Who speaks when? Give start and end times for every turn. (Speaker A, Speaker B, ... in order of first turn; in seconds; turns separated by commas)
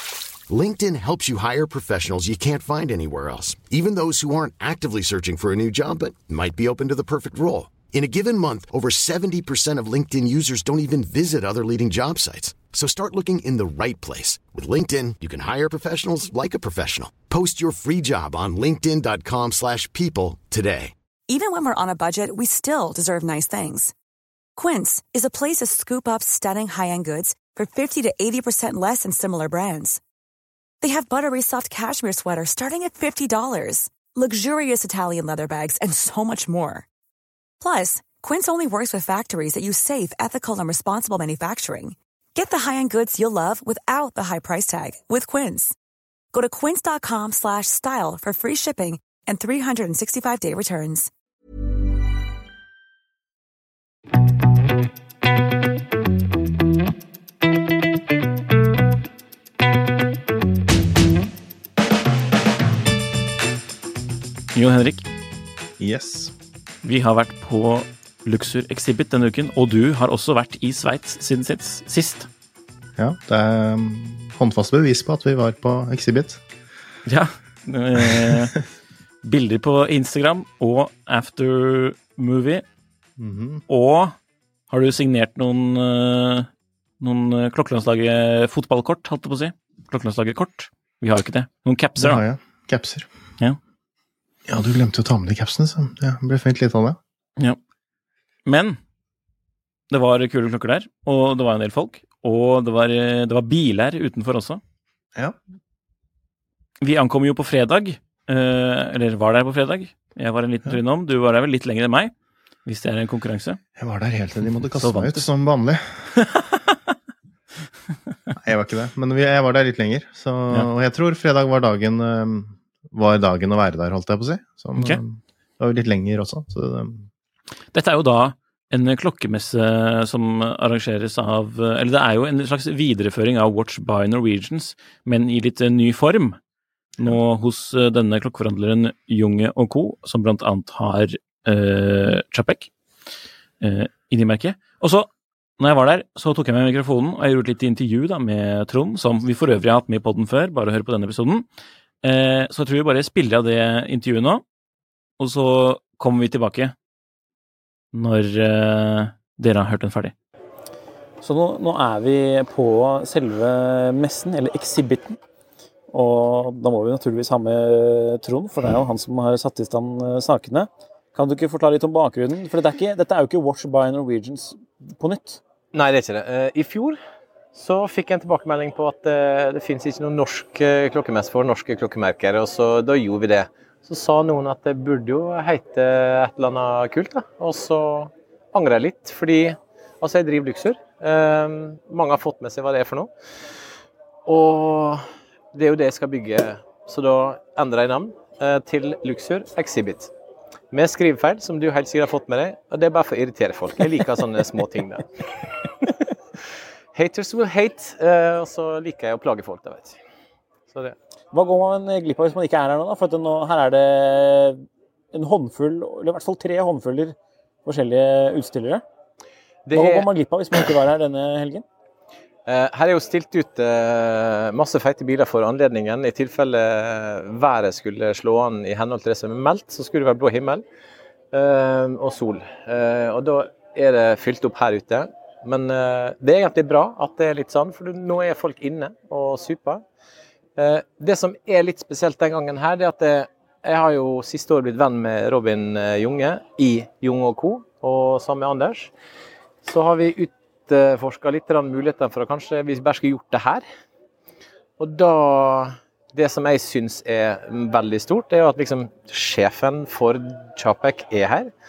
Speaker A: 0.5-20.9, Speaker B: 21.3-23.9, Speaker B: 24.6-30.0, Speaker B: 30.8-36.9, Speaker B: 37.6-45.8, Speaker B: 46.3-51.1, Speaker C: 64.5-65.0, Speaker D: 65.8-66.3, Speaker C: 66.8-72.3, Speaker D: 73.0-76.4, Speaker C: 77.0-78.6, Speaker D: 78.0-78.3, Speaker C: 79.2-82.6, Speaker D: 83.2-83.6, Speaker C: 83.7-84.1, Speaker C: 84.7-86.5, Speaker C: 87.0-92.2, Speaker D: 92.0-93.1, Speaker D: 94.5-97.0, Speaker C: 98.4-98.8, Speaker C: 99.9-104.6, Speaker C: 106.8-112.1, Speaker C: 112.7-113.6, Speaker D: 113.8-116.1, Speaker C: 114.8-115.2, Speaker C: 116.2-116.6, Speaker D: 118.3-127.1, Speaker C: 124.8-125.0, Speaker C: 127.7-136.4, Speaker C: 137.0-142.7, Speaker C: 143.6-151.4, Speaker C: 152.0-154.4, Speaker C: 155.2-156.7, Speaker C: 157.9-160.1, Speaker C: 161.2-165.2, Speaker C: 165.9-175.4, Speaker E: 175.7-177.0, Speaker E: 177.5-193.1, Speaker E: 194.2-200.1, Speaker E: 200.7-205.1, Speaker E: 206.9-210.0, Speaker C: 211.3-218.8, Speaker E: 219.7-220.1, Speaker C: 219.7-221.6, Speaker E: 222.5-230.6, Speaker E: 231.3-239.8, Speaker E: 240.6-248.9, Speaker E: 249.6-253.6, Speaker E: 254.8-261.5